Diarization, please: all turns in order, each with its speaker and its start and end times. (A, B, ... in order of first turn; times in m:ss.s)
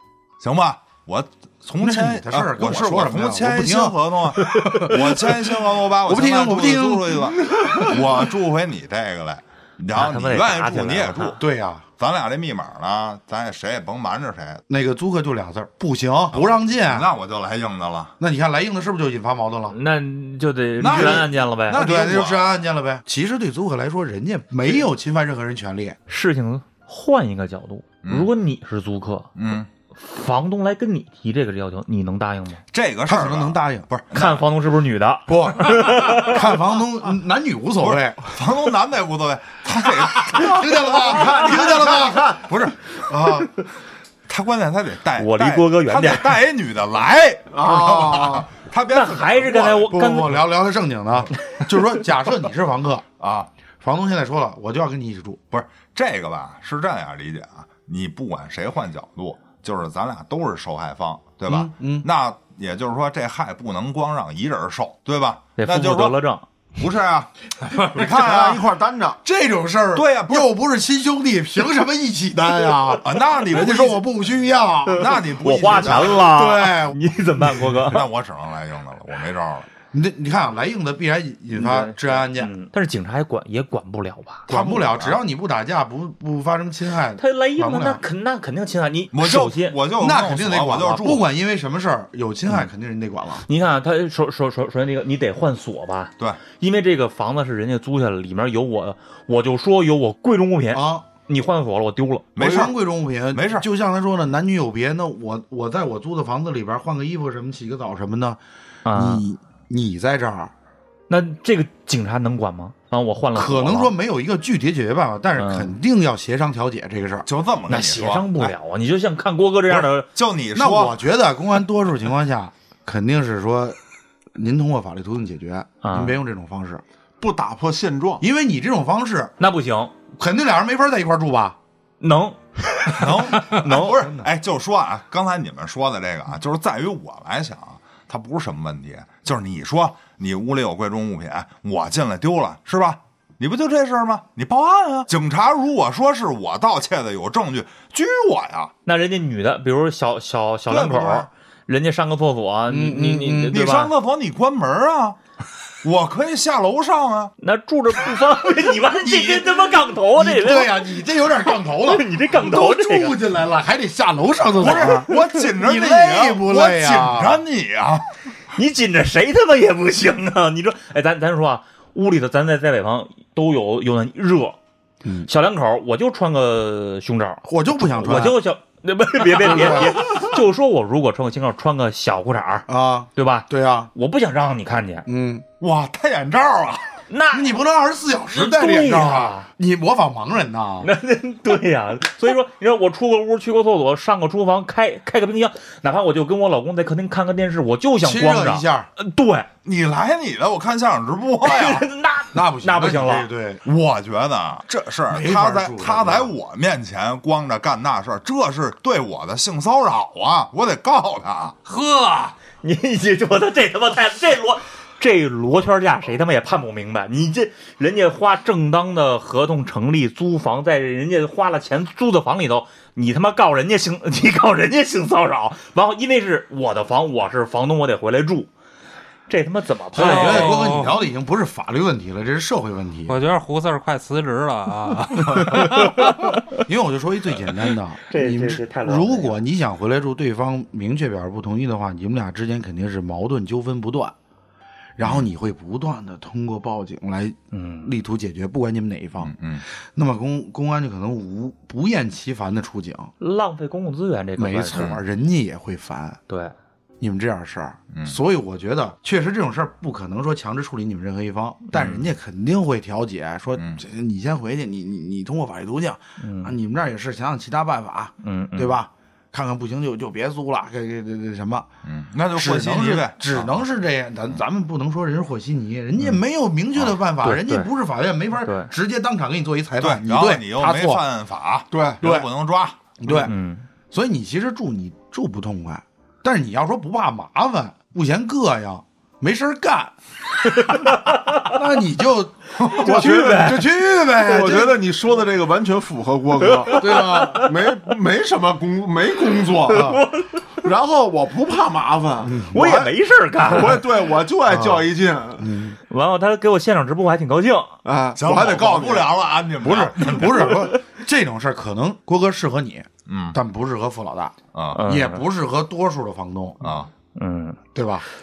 0:00.4-0:11.4 A
0:01.8-0:07.9 B
0:09.9-0:11.4 C
0:11.4-0:11.9 B
0:12.0-0:14.6 A
0:14.7-0:17.1 B
0:16.3-0:18.1 A
0:18.2-0:19.8 B
0:19.7-0:21.8 C
0:20.8-0:22.4 A
0:20.8-0:26.0 B
0:26.1-0:29.3 C
0:28.0-0:28.3 A
0:29.4-0:29.7 A
0:29.9-0:32.6 C
0:32.7-0:34.4 A
0:33.1-0:33.9 B
0:34.1-0:36.4 C
0:35.3-0:38.2 B
0:37.8-0:43.0 A
0:40.2-0:43.5 B
0:44.3-0:49.9 A
0:45.2-0:46.4 C
0:47.6-0:48.4 D
0:47.6-0:48.4 B
0:48.9-0:50.4 C
0:49.9-0:53.0 B
0:53.2-0:53.5 A
0:53.8-0:55.4 B
0:55.5-1:06.2 A
1:01.5-1:02.1 B
1:05.6-1:06.5 C
1:06.8-1:08.6 A
1:07.9-1:09.2 D
1:09.2-1:15.0 B
1:09.9-1:10.5 A
1:13.0-1:14.0 A
1:14.9-1:18.1 C
1:14.9-1:16.2 A
1:15.7-1:17.0 B
1:17.8-1:19.7 A
1:19.9-1:22.5 B
1:21.5-1:24.5 C
1:24.5-1:25.2 A
1:24.5-1:28.0 B
1:27.2-1:29.8 C
1:29.1-1:31.2 A
1:30.0-1:33.4 B
1:33.5-1:42.4 C
1:40.7-1:41.1 B
1:42.4-1:42.7 A
1:42.4-1:48.4 B
1:43.3-1:43.7 A
1:48.8-1:49.2 C
1:48.9-1:50.5 B
1:51.1-1:53.9 C
1:53.3-1:57.3 B
1:55.4-1:55.8 C
1:57.3-1:58.5 A
1:57.7-2:00.1 C
1:59.7-2:01.0 A
2:00.5-2:03.8 B
2:04.4-2:06.8 B
2:05.8-2:06.2 C
2:07.2-2:08.2 D
2:08.2-2:09.3 B
2:09.4-2:09.9 C
2:10.1-2:11.6 B
2:12.0-2:12.4 C
2:12.9-2:28.7 A
2:13.5-2:14.3 B
2:28.9-2:33.9 C
2:30.7-2:31.3 A
2:32.7-2:33.6 B
2:33.5-2:35.2 A
2:35.8-2:37.3 A
2:37.4-2:40.8 C
2:39.0-2:47.4 B
2:41.8-2:43.2 C
2:44.6-2:48.1 A
2:44.7-2:45.0 C
2:48.5-2:54.6 C
2:55.0-2:55.3 B
2:55.2-3:05.1 C
2:57.4-2:58.4 B
2:59.4-3:00.1 B
3:02.7-3:03.9 B
3:05.1-3:05.4 B
3:05.6-3:06.9 A
3:07.1-3:07.6 C
3:07.3-3:10.9 B
3:08.3-3:09.5 C
3:10.8-3:19.5 C
3:18.0-3:18.9 B
3:19.6-3:21.9 A
3:21.4-3:23.3 C
3:22.3-3:23.6 B
3:23.6-3:31.6 A
3:25.1-3:26.3 B
3:31.7-3:48.5 C
3:49.3-3:50.6 C
3:49.9-3:53.2 B
3:50.0-3:51.0 E
3:53.1-3:56.0 E
3:55.5-3:56.5 C
3:56.6-4:04.1 B
3:58.1-3:59.4 C
4:05.0-4:13.1 B
4:05.0-4:05.3 A
4:07.5-4:07.9 C
4:09.2-4:09.6 A
4:13.2-4:14.8 C
4:14.4-4:16.2 B
4:14.7-4:15.0 A
4:16.3-4:16.5 C
4:17.0-4:31.7 B
4:21.7-4:22.0 A
4:23.6-4:23.8 A
4:26.2-4:26.5 C
4:28.2-4:28.8 C
4:31.8-4:33.6 A
4:32.3-4:41.0 B
4:37.2-4:37.7 C
4:38.4-4:38.7 C
4:39.8-4:42.8 A
4:41.7-4:42.0 D
4:42.0-4:42.3 B
4:43.0-4:43.3 B
4:43.1-4:43.7 C
4:43.9-4:50.0 B
4:50.5-4:51.6 C
4:51.4-4:54.8 B
4:52.6-4:53.6 C
4:52.7-5:00.0 D
4:56.6-4:57.5 C
4:56.7-4:57.5 B
4:59.7-5:00.0 B
4:59.7-5:00.6 C
5:00.6-5:05.5 D
5:02.2-5:02.6 B
5:02.5-5:03.8 C
5:05.4-5:05.8 B
5:05.9-5:07.7 C
5:07.8-5:09.1 D
5:08.2-5:10.7 A
5:09.6-5:16.6 B
5:13.1-5:13.4 A
5:14.5-5:14.8 A
5:14.8-5:15.2 C
5:16.6-5:16.9 A
5:17.2-5:17.6 C
5:17.8-5:18.1 B